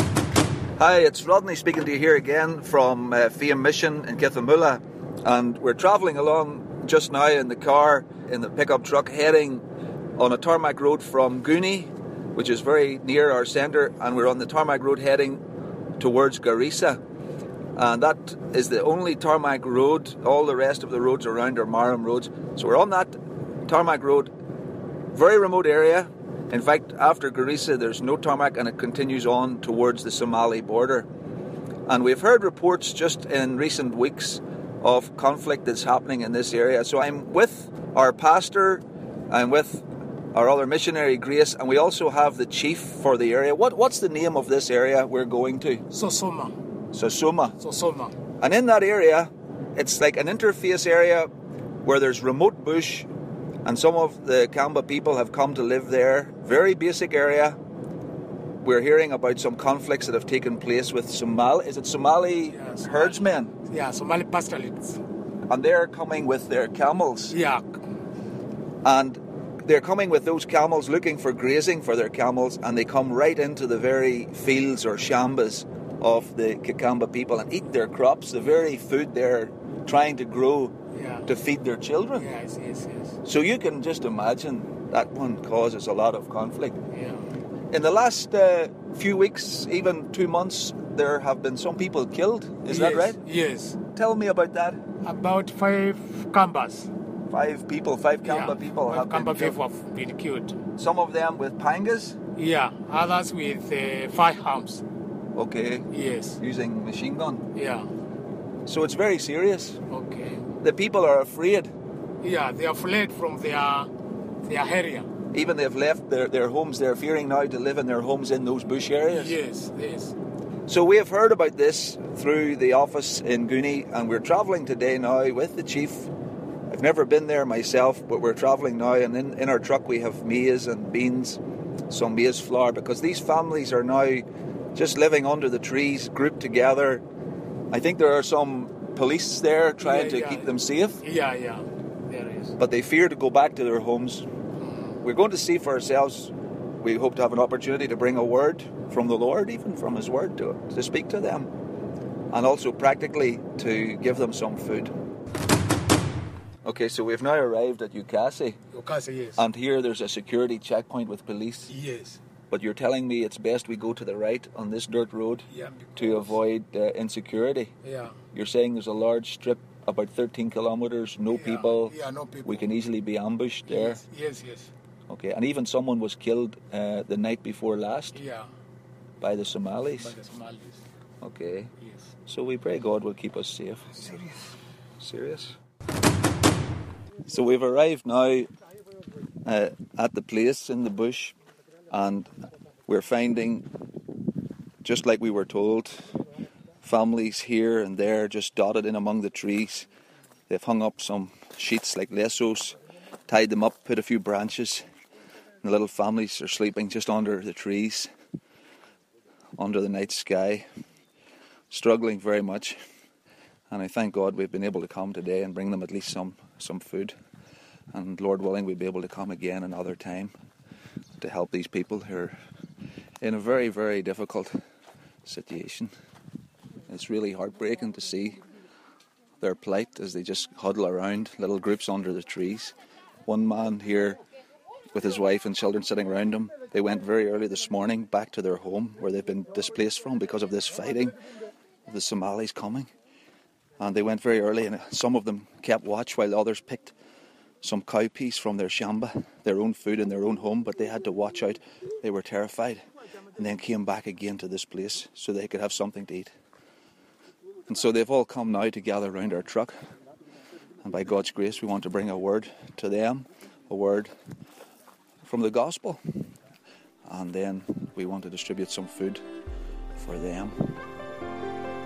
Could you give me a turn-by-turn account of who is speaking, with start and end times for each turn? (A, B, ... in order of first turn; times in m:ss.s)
0:00.8-0:09.6 A
0:10.2-0:15.4 A
0:16.0-0:17.0 A
0:17.8-0:23.1 A
0:23.6-0:24.3 A
0:25.1-0:31.1 A
0:31.9-0:45.8 A
0:45.9-0:46.6 B
0:46.9-0:47.6 A
0:47.6-0:48.2 B
0:48.4-0:51.3 A
0:51.8-0:53.1 A
0:53.6-0:57.6 A
0:58.6-1:03.5 A
1:02.5-1:05.0 B
1:05.5-1:07.4 A
1:07.3-1:07.8 B
1:08.8-1:20.7 A
1:20.9-1:21.3 B
1:21.3-1:22.3 A
1:22.2-1:23.2 B
1:23.2-1:26.8 A
1:26.9-1:27.2 B
1:27.7-1:33.2 A
1:32.7-1:33.8 B
1:33.9-1:34.8 A
1:35.0-1:36.9 B
1:37.3-1:39.6 A
1:38.2-1:40.6 B
1:40.8-1:42.2 A
1:42.3-1:44.8 B
1:45.3-1:47.4 A
1:45.9-1:46.4 B
1:47.5-1:47.9 B
1:48.6-1:49.8 A
1:49.9-1:50.4 B
1:50.6-1:51.7 A
1:52.2-1:53.9 B
1:54.4-1:55.1 B
1:55.3-1:59.4 A
1:59.1-2:00.2 B
2:00.7-2:06.1 A
2:06.7-2:17.0 A
2:17.7-2:21.0 A
2:19.8-2:22.6 B
2:22.6-2:24.3 A
2:24.6-2:25.0 B
2:25.0-2:31.5 A
2:32.3-2:34.9 A
2:36.6-2:38.6 A
2:38.7-2:39.4 B
2:39.4-2:41.7 A
2:41.7-2:42.2 B
2:42.5-2:47.7 A
2:45.5-2:46.2 B
2:47.8-2:48.2 B
2:48.3-2:51.9 A
2:51.3-2:52.6 B
2:52.4-2:54.0 A
2:53.7-2:54.7 B
2:55.1-2:58.2 A
2:58.1-2:58.5 B
2:59.2-3:00.1 A
3:00.0-3:00.8 B
3:01.2-3:01.7 A
3:01.8-3:02.1 B
3:02.3-3:04.2 A
3:04.0-3:04.4 B
3:05.0-3:05.6 A
3:07.2-3:08.5 A
3:09.4-3:11.3 A
3:11.9-3:12.3 A
3:12.9-3:13.6 A
3:14.8-3:16.1 A
3:16.8-3:19.9 A
3:20.5-3:22.8 A
3:23.3-3:24.8 A
3:25.6-3:28.1 A
3:29.6-3:30.6 A
3:31.7-3:32.8 A
3:33.7-3:37.1 A
3:37.9-3:40.3 A
3:41.2-3:42.4 A
3:43.2-3:44.6 A
3:45.2-3:45.9 A
3:46.9-3:48.4 A
3:49.4-3:52.7 A
3:53.2-3:54.2 A
3:54.9-4:01.2 A
4:01.9-4:02.9 A
4:03.8-4:06.9 A
4:07.6-4:12.8 A
4:13.4-4:16.3 A
4:17.7-4:19.7 A
4:20.8-4:24.1 A
4:25.2-4:26.0 A
4:27.0-4:29.2 A
4:30.0-4:30.7 A